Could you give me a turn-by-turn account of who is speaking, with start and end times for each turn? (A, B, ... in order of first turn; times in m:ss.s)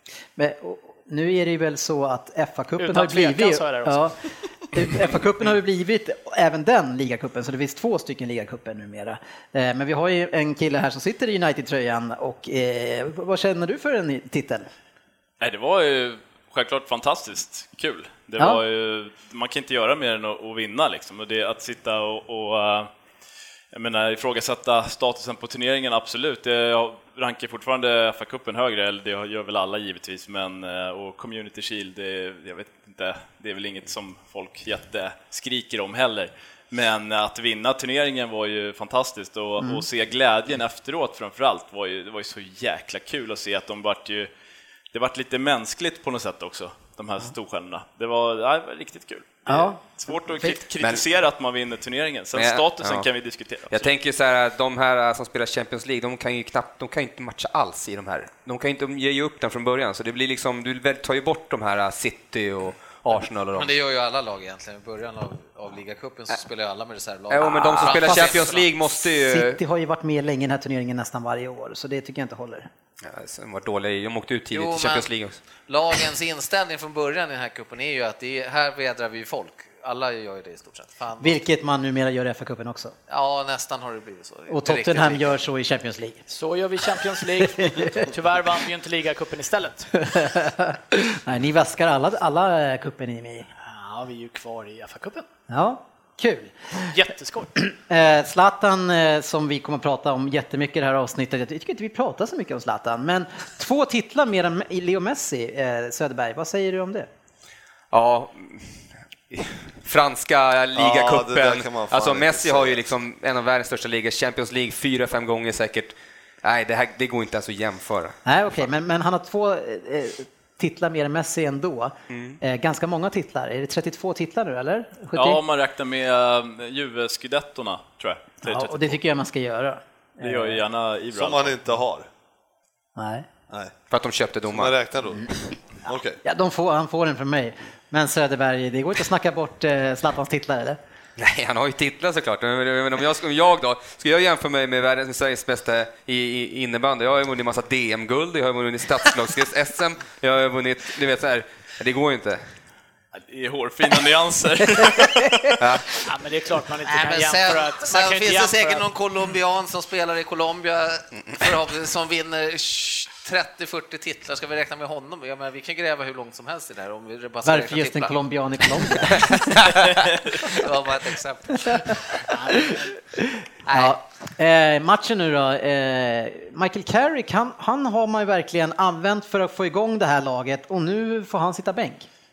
0:00.4-0:14.7 A
0:02.8-0:04.1 B
0:15.4-0:22.9 C
0:23.7-0:44.3 C
0:39.6-0:39.8 A
0:44.9-0:53.9 C
0:49.5-0:50.6 A
0:52.3-0:53.1 D
0:53.7-1:03.7 D
1:03.5-1:08.7 E
1:07.3-1:09.6 D
1:07.8-1:08.5 A
1:09.2-1:12.7 A
1:13.0-1:15.4 D
1:14.5-1:15.1 E
1:15.7-1:21.4 E
1:21.2-1:22.9 A
1:23.1-1:25.3 E
1:24.5-1:26.2 A
1:26.3-1:29.9 B
1:27.4-1:28.1 A
1:30.0-1:33.5 A
1:33.6-1:35.3 B
1:35.5-1:37.0 A
1:36.9-1:37.5 B
1:37.6-1:47.1 A
1:47.9-1:58.2 D
1:50.8-1:52.8 F
1:58.2-2:05.4 A
2:02.1-2:02.4 D
2:05.1-2:09.0 C
2:08.4-2:10.6 A
2:10.2-2:11.6 C
2:11.1-2:12.1 F
2:13.0-2:13.3 A
2:13.9-2:14.7 D
2:14.5-2:15.3 F
2:15.8-2:16.2 F
2:16.2-2:20.8 A
2:21.2-2:32.4 D
2:33.1-2:35.6 C
2:35.6-2:35.9 D
2:36.0-2:38.8 B
2:36.8-2:48.1 E
2:47.4-2:49.9 A
2:50.4-2:52.0 E
2:52.3-2:52.7 B
2:52.6-3:02.1 A
2:53.6-2:54.0 E